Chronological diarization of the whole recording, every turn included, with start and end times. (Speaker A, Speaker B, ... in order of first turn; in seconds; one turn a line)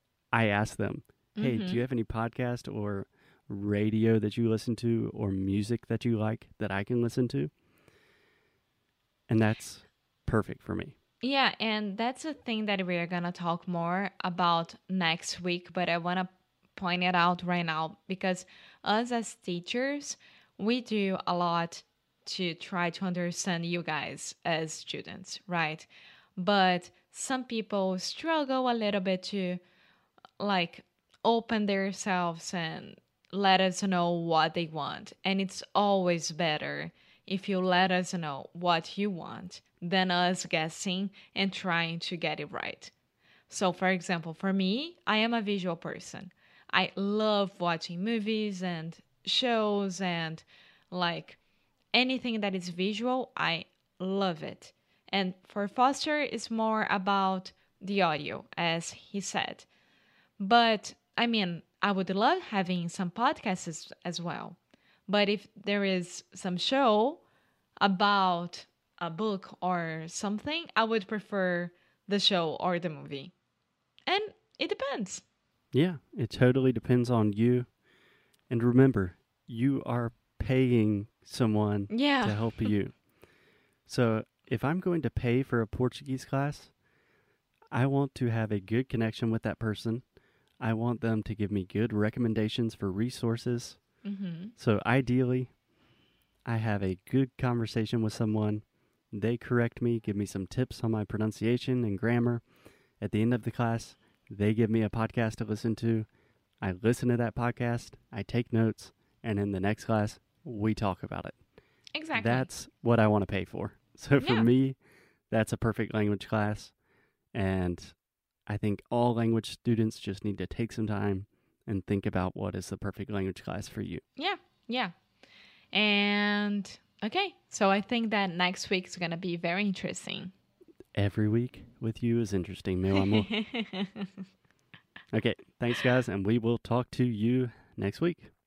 Speaker A: 0.3-7.5
Speaker B: 1.4-1.8
Speaker A: 9.3-10.9
Speaker B: 11.2-29.6
Speaker B: 30.4-42.9
Speaker B: 43.5-51.4
Speaker B: 51.9-59.7
Speaker B: 60.4-64.6
Speaker B: 65.1-67.2
Speaker B: 67.8-73.3
Speaker B: 74.1-75.2
Speaker A: 75.7-77.7
Speaker A: 78.5-83.0
Speaker B: 81.9-82.7
Speaker A: 83.8-86.7
Speaker A: 87.7-90.0
Speaker A: 90.6-93.8
Speaker B: 94.0-94.5
Speaker A: 94.6-95.5
Speaker A: 96.5-102.4
Speaker A: 103.0-106.1
Speaker A: 106.6-111.4
Speaker B: 111.9-112.5
Speaker A: 112.1-114.8
Speaker B: 114.2-114.5
Speaker A: 115.3-116.7
Speaker A: 117.3-124.0
Speaker B: 124.2-124.9
Speaker B: 125.7-130.3
Speaker A: 130.9-133.3
Speaker B: 132.9-134.2
Speaker A: 135.1-138.3